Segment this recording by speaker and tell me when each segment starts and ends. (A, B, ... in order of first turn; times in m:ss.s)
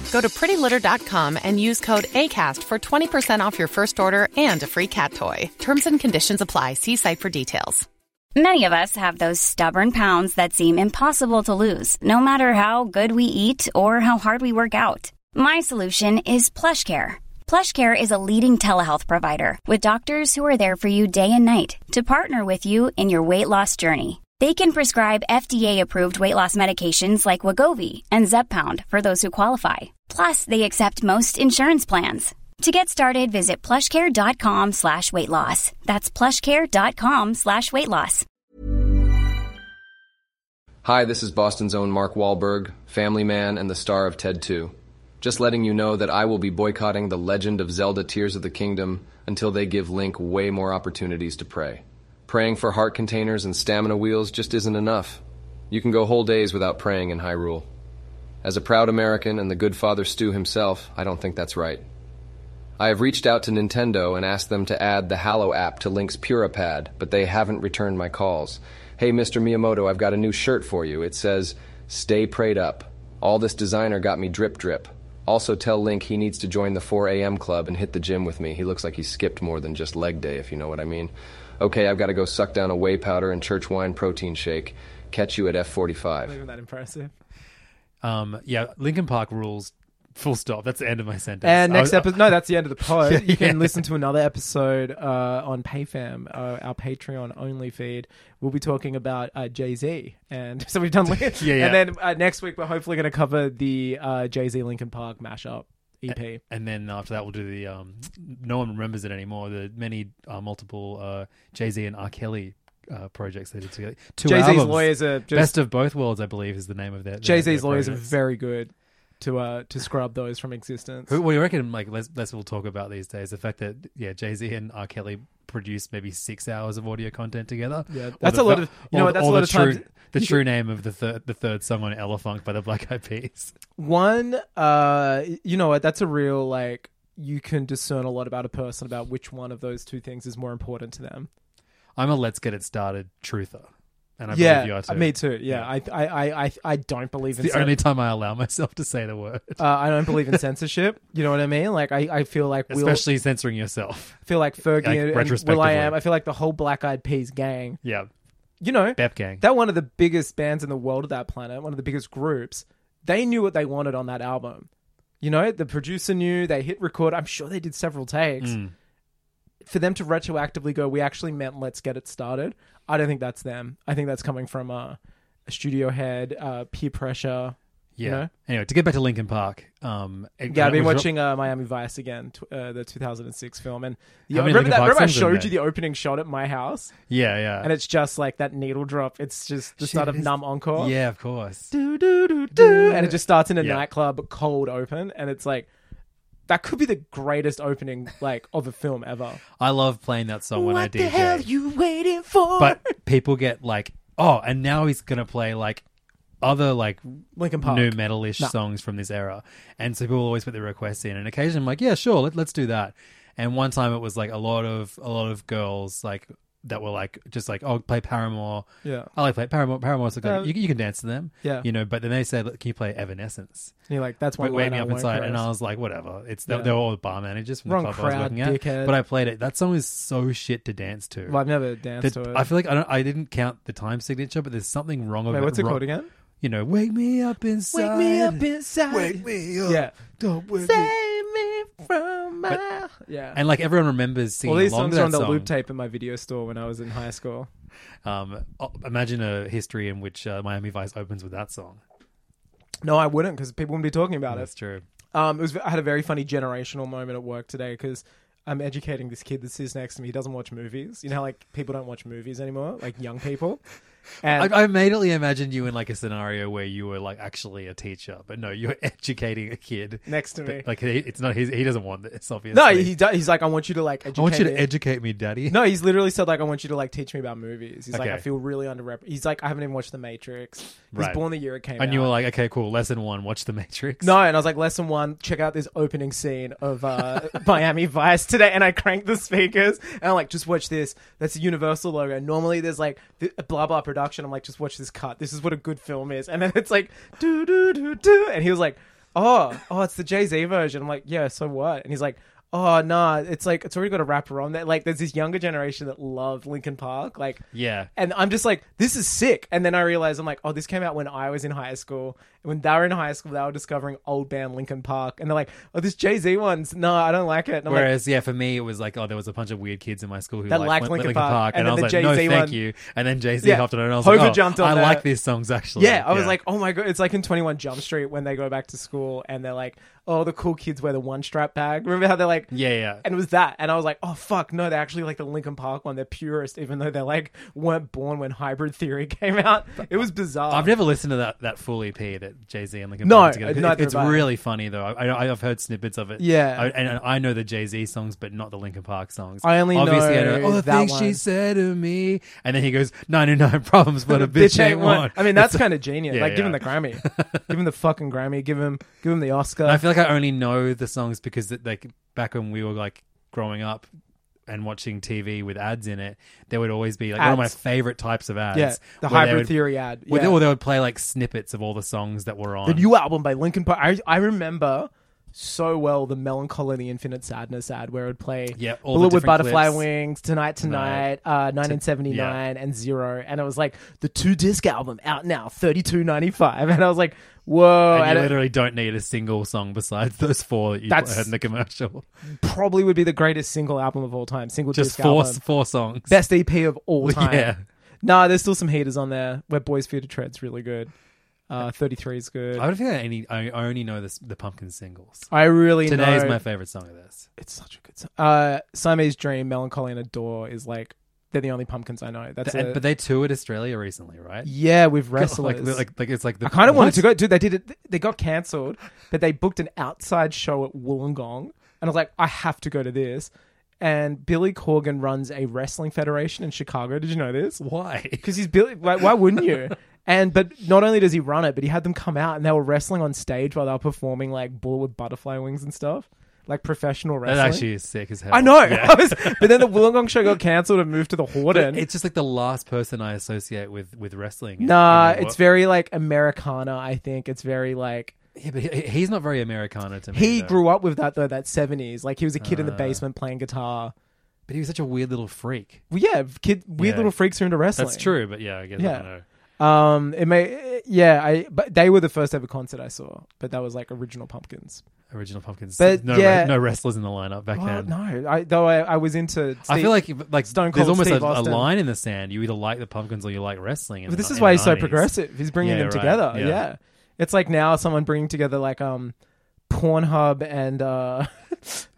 0:00.1-0:07.9 A
0:08.4-0:38.2 B
0:40.8-0:57.7 C
0:58.4-1:01.8 C
1:02.8-1:26.4 C
1:26.3-1:27.1 D
1:28.0-1:33.8 E
1:31.4-1:46.4 D
1:41.3-1:41.8 E
1:46.1-1:58.1 E
1:54.2-1:55.6 D
1:57.2-2:01.2 D
2:01.1-2:13.6 E
2:07.9-2:10.4 D
2:13.8-2:21.3 D
2:22.0-2:25.7 E
2:24.3-2:27.8 D
2:27.4-2:30.4 E
2:29.6-2:33.1 D
2:32.7-2:34.2 E
2:34.2-2:37.8 D
2:34.8-2:36.0 E
2:37.8-2:38.1 E
2:38.6-2:44.7 D
2:39.0-2:39.4 E
2:45.2-2:48.6 D
2:48.4-2:48.7 E
2:49.6-2:58.3 D
2:58.0-3:01.2 E
3:00.5-3:06.9 D
3:04.3-3:05.6 E
3:07.1-3:07.7 E
3:07.6-3:10.9 D
3:09.8-3:11.7 E
3:11.7-3:15.7 D
3:12.5-3:13.8 E
3:16.5-3:19.4 D
3:19.6-3:21.5 E
3:20.5-3:23.0 D
3:22.6-3:25.8 E
3:26.4-3:43.7 E
3:27.4-3:28.5 D
3:38.8-3:39.1 D
3:40.2-3:40.5 D
3:43.9-3:45.5 D
3:44.4-3:51.4 E
3:46.5-3:46.7 D
3:47.7-3:49.0 D
3:51.3-3:52.5 D
3:52.0-3:55.8 E
3:55.3-3:56.1 D
3:56.4-4:00.9 E
3:57.7-4:03.4 D
4:03.3-4:05.5 E
4:04.4-4:07.5 D
4:08.0-4:11.8 E
4:12.8-4:14.5 D
4:14.3-4:14.8 E
4:15.1-4:23.6 D
4:24.2-4:24.6 D
4:24.3-4:33.0 E
4:30.1-4:30.7 D
4:32.5-4:34.7 D
4:34.1-4:35.6 E
4:35.5-4:42.1 D
4:37.9-4:38.2 E
4:40.9-4:41.2 E
4:41.8-4:44.2 E
4:44.0-5:07.4 D
5:07.5-5:07.9 E
5:08.0-5:17.9 D
5:17.7-5:26.4 E
5:20.5-5:22.6 D
5:23.4-5:25.1 D
5:25.8-5:32.5 D
5:32.5-5:33.0 E
5:33.0-5:40.7 D
5:40.5-5:57.5 E
5:43.0-5:44.3 D
5:46.2-5:46.7 D
5:49.4-5:51.2 D
5:54.1-5:59.8 D
5:59.6-6:03.9 E
6:04.5-6:12.9 E
6:07.2-6:07.6 D
6:08.5-6:10.5 D
6:12.6-6:28.4 D
6:18.6-6:19.9 E
6:20.6-6:22.4 E
6:27.9-6:32.1 E
6:30.9-6:31.3 D
6:32.4-6:35.4 D
6:34.7-6:36.2 E
6:36.1-6:40.9 D
6:37.0-6:37.6 E
6:41.5-6:42.7 D
6:42.6-6:45.3 E
6:45.3-6:46.4 D
6:45.8-6:47.3 E
6:47.4-6:52.8 D
6:52.4-6:54.5 E
6:54.4-6:55.8 D
6:55.1-6:57.1 E
6:56.4-7:07.6 D
7:07.6-7:08.3 E
7:08.2-7:17.7 D
7:17.3-7:19.7 E
7:18.3-7:21.8 D
7:21.5-7:25.4 E
7:24.6-7:28.1 D
7:28.4-7:30.6 E
7:30.1-7:33.9 D
7:32.4-7:33.0 E
7:34.5-7:35.8 E
7:35.9-7:38.1 D
7:36.8-7:37.1 E
7:37.8-7:39.2 E
7:38.8-7:39.1 D
7:39.6-7:44.8 D
7:45.1-7:47.9 E
7:45.8-7:46.5 D
7:47.5-7:51.7 D
7:49.7-7:56.6 E
7:54.1-7:59.2 D
7:59.7-8:01.9 D